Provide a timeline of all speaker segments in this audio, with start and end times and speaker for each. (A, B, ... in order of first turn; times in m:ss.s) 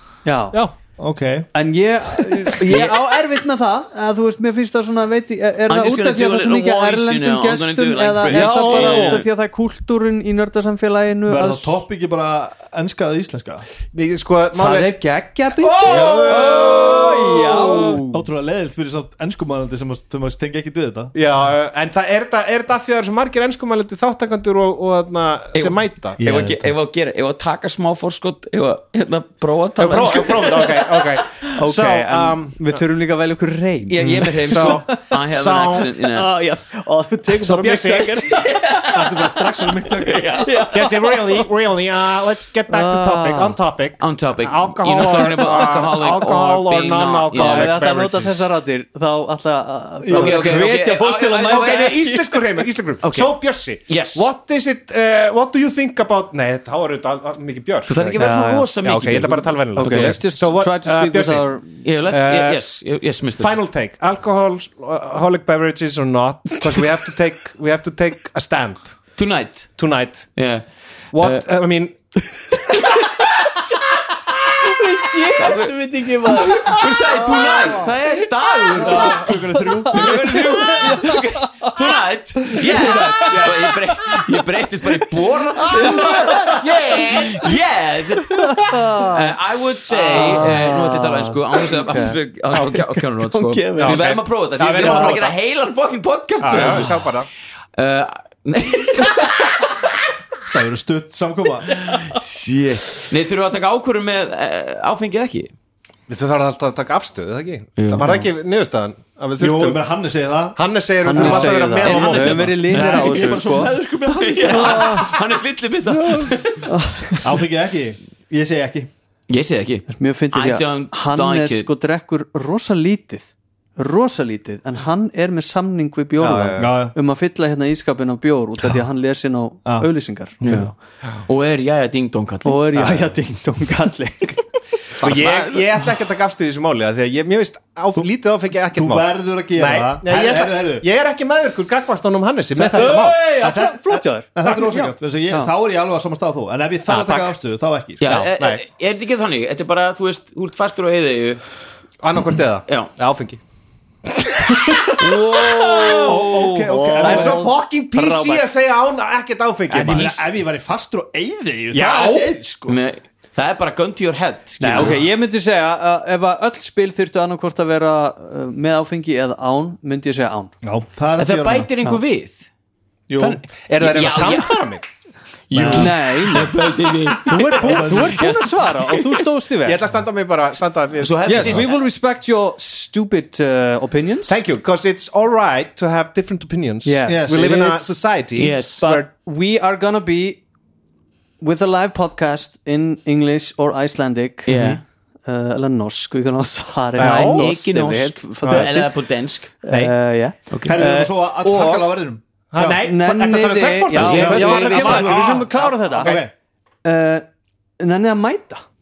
0:00.2-0:00.6 A
0:01.0-0:01.5 B
0:01.5-0:11.8 A
0:05.7-0:09.3 C
0:08.3-0:09.2 D
0:11.3-0:13.7 B
0:13.9-0:14.9 D
0:14.5-0:18.0 A
0:15.6-0:18.2 D
0:15.8-0:17.9 C
0:18.1-0:21.1 B
0:21.2-0:26.2 D
0:25.5-0:31.5 C
0:26.2-0:26.7 B
0:29.8-0:32.6 D
0:31.6-0:35.0 A
0:33.9-0:36.3 C
0:34.4-0:35.9 D
0:35.8-0:38.8 A
0:37.4-0:38.4 D
0:38.4-0:40.8 C
0:38.9-0:40.4 B
0:40.4-0:41.5 A
0:40.7-0:48.5 D
0:42.7-0:43.6 A
0:44.0-0:47.8 C
0:47.3-0:52.7 A
0:50.0-0:50.6 B
0:50.1-0:52.0 C
0:51.5-0:58.3 D
0:53.0-0:54.3 C
0:57.9-1:00.2 C
0:58.2-0:58.7 A
0:58.8-1:01.5 D
0:59.8-1:01.7 A
1:01.8-1:03.6 C
1:02.1-1:02.6 D
1:03.4-1:09.0 D
1:09.2-1:09.7 C
1:09.8-1:10.3 D
1:10.4-1:10.6 C
1:11.1-1:12.0 D
1:11.2-1:11.4 C
1:14.6-1:17.2 A
1:15.4-1:37.1 C
1:18.8-1:21.0 B
1:18.9-1:19.3 A
1:20.0-1:21.8 A
1:22.6-1:23.7 A
1:22.6-1:23.5 B
1:25.7-1:26.5 A
1:25.7-1:27.6 D
1:28.4-1:29.3 A
1:29.9-1:30.6 D
1:30.1-1:32.2 A
1:33.2-1:34.2 A
1:33.8-1:35.3 D
1:34.8-1:35.1 A
1:36.4-1:37.3 D
1:37.8-1:39.9 C
1:40.5-1:41.8 B
1:41.8-1:45.5 C
1:46.1-1:49.8 D
1:47.8-1:48.3 C
1:49.4-1:50.6 B
1:50.6-1:52.6 D
1:51.0-1:53.8 A
1:51.2-1:55.2 B
1:51.8-1:57.1 C
1:54.4-1:55.1 A
1:55.9-1:56.6 B
1:56.6-1:57.2 A
1:57.2-1:58.9 B
1:59.3-2:01.7 C
1:59.9-2:10.8 A
2:06.2-2:06.8 D
2:06.6-2:07.0 B
2:10.4-2:10.7 B
2:11.3-2:13.2 C
2:12.4-2:14.5 A
2:15.0-2:23.3 D
2:15.0-2:15.6 C
2:18.7-2:20.8 B
2:22.6-2:25.5 A
2:23.4-2:28.2 B
2:26.9-2:27.4 D
2:28.0-2:31.4 C
2:28.0-2:28.6 D
2:32.0-2:33.4 D
2:34.2-2:40.1 D
2:35.0-2:36.1 C
2:35.7-2:38.5 A
2:36.0-2:37.4 B
2:39.7-2:40.2 C
2:39.8-2:42.8 B
2:41.7-2:42.4 D
2:42.7-2:45.0 C
2:44.6-2:50.5 A
2:50.6-2:51.7 B
2:51.2-2:52.5 C
2:53.1-2:53.4 B
2:53.2-2:54.6 C
2:53.7-2:54.8 D
2:55.5-2:59.1 C
2:55.5-2:55.9 B
2:55.7-2:56.6 A
2:57.2-2:59.9 A
2:57.6-2:58.2 B
2:59.6-3:01.7 D
3:01.0-3:01.8 C
3:01.3-3:04.4 A
3:04.3-3:09.1 D
3:06.8-3:08.0 A
3:07.1-3:07.5 B
3:08.4-3:08.8 C
3:08.8-3:10.4 A
3:11.4-3:19.0 A
3:14.4-3:14.8 C
3:17.0-3:17.5 D
3:17.0-3:19.5 C
3:18.4-3:18.7 D
3:19.6-3:22.0 A
3:19.7-3:19.9 D
3:20.7-3:22.7 B
3:22.5-3:26.2 D
3:22.7-3:26.2 A
3:24.0-3:26.3 B
3:24.0-3:25.0 C
3:26.8-3:27.3 A
3:27.8-3:28.6 A